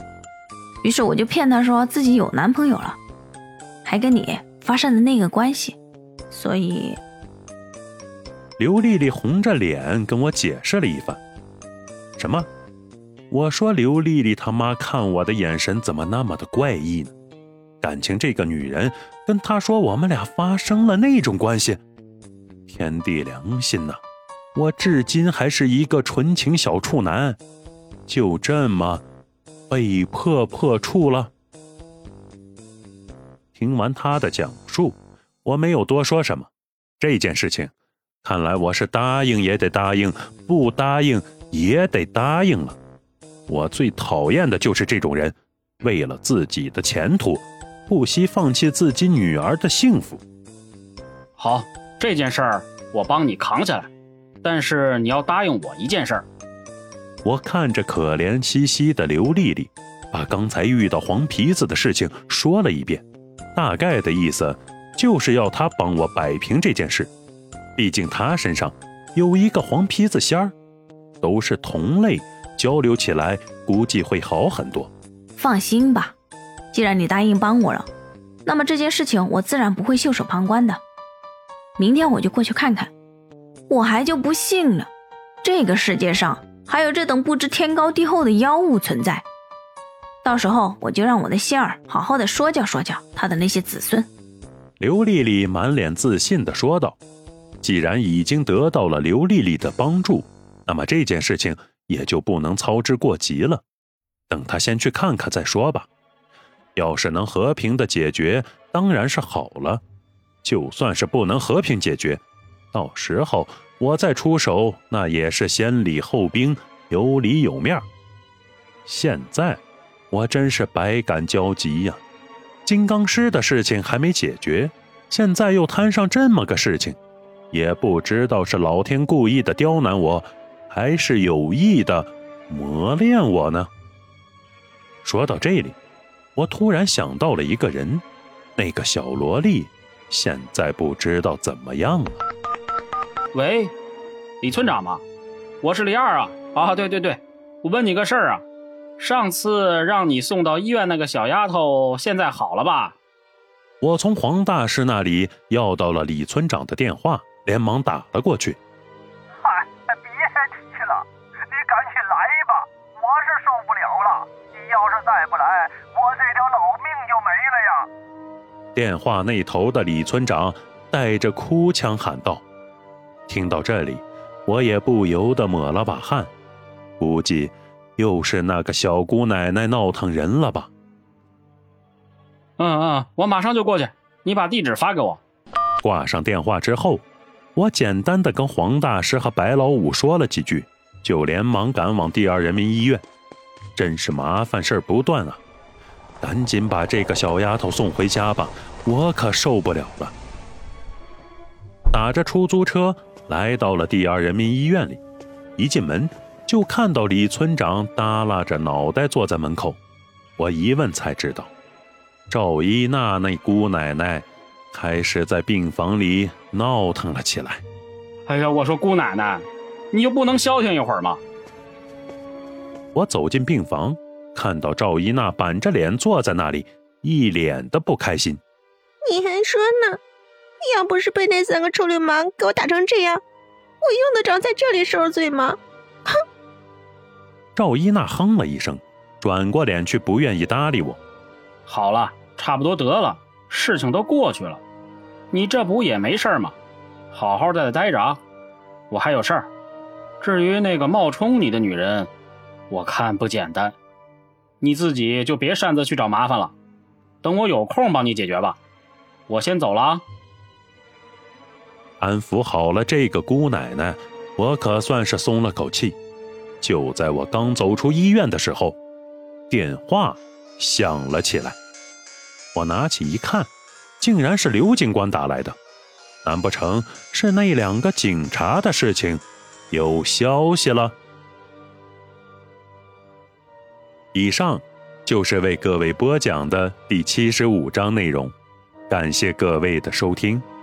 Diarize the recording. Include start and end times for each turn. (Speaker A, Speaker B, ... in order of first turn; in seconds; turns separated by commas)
Speaker A: 0.8-3.0, Speaker A: 3.8-5.8, Speaker A: 6.3-7.0, Speaker B: 8.6-11.2, Speaker B: 12.2-12.5, Speaker B: 13.3-17.1, Speaker B: 17.8-21.8, Speaker B: 22.7-24.0, Speaker B: 24.6-27.4, Speaker B: 28.1-29.0, Speaker B: 29.7-31.3, Speaker B: 33.5-37.7, Speaker B: 38.2-42.8, Speaker B: 43.5-50.2, Speaker C: 51.4-53.9, Speaker C: 54.4-56.2, Speaker B: 57.2-67.1, Speaker B: 67.8-70.5, Speaker B: 71.2-74.9, Speaker A: 75.4-76.2, Speaker A: 76.7-77.9, Speaker A: 78.4-80.8, Speaker A: 81.8-82.9, Speaker A: 83.7-84.9, Speaker A: 85.4-89.2, Speaker A: 90.2-94.1, Speaker B: 94.8-97.0, Speaker B: 97.6-103.6, Speaker B: 104.3-105.9, Speaker B: 106.8-109.8, Speaker B: 110.4-112.2, Speaker B: 112.7-117.8, Speaker B: 118.9-119.6, Speaker B: 120.1-122.0, Speaker B: 122.7-127.0, Speaker B: 127.5-133.7, Speaker B: 135.0-135.8, Speaker B: 136.3-138.0, Speaker B: 138.6-142.2, Speaker C: 143.3-143.7, Speaker C: 144.4-145.0, Speaker C: 145.6-148.4, Speaker C: 149.0-152.9, Speaker B: 153.8-158.6, Speaker D: 159.5-160.9, Speaker D: 161.5-167.7, Speaker B: 168.7-172.4, Speaker B: 173.3-176.3, Speaker B: 177.0-180.7, Speaker C: 182.6-185.2, Speaker B: 185.8-187.0, Speaker B: 187.6-193.0, Speaker B: 193.8-195.4, Speaker B: 196.2-200.1, Speaker B: 201.9-205.0, Speaker B: 205.6-209.8, Speaker B: 210.4-211.5, Speaker B: 212.3-217.6, Speaker C: 218.2-221.2, Speaker B: 222.9-228.4, Speaker E: 229.1-230.0, Speaker E: 230.7-233.2, Speaker E: 233.8-235.5, Speaker B: 237.6-241.0, Speaker C: 241.7-244.6, Speaker C: 245.3-246.5, Speaker C: 247.1-248.2, Speaker C: 248.9-249.5, Speaker C: 250.2-252.1, Speaker C: 252.7-253.8, Speaker C: 254.6-256.5, Speaker C: 257.2-258.6, Speaker C: 259.3-260.0, Speaker B: 262.0-266.0, Speaker B: 266.6-268.8, Speaker B: 269.5-271.6, Speaker B: 272.5-273.5, Speaker B: 274.0-275.6, Speaker B: 276.2-280.9, Speaker B: 284.1-288.3, Speaker B: 288.9-290.4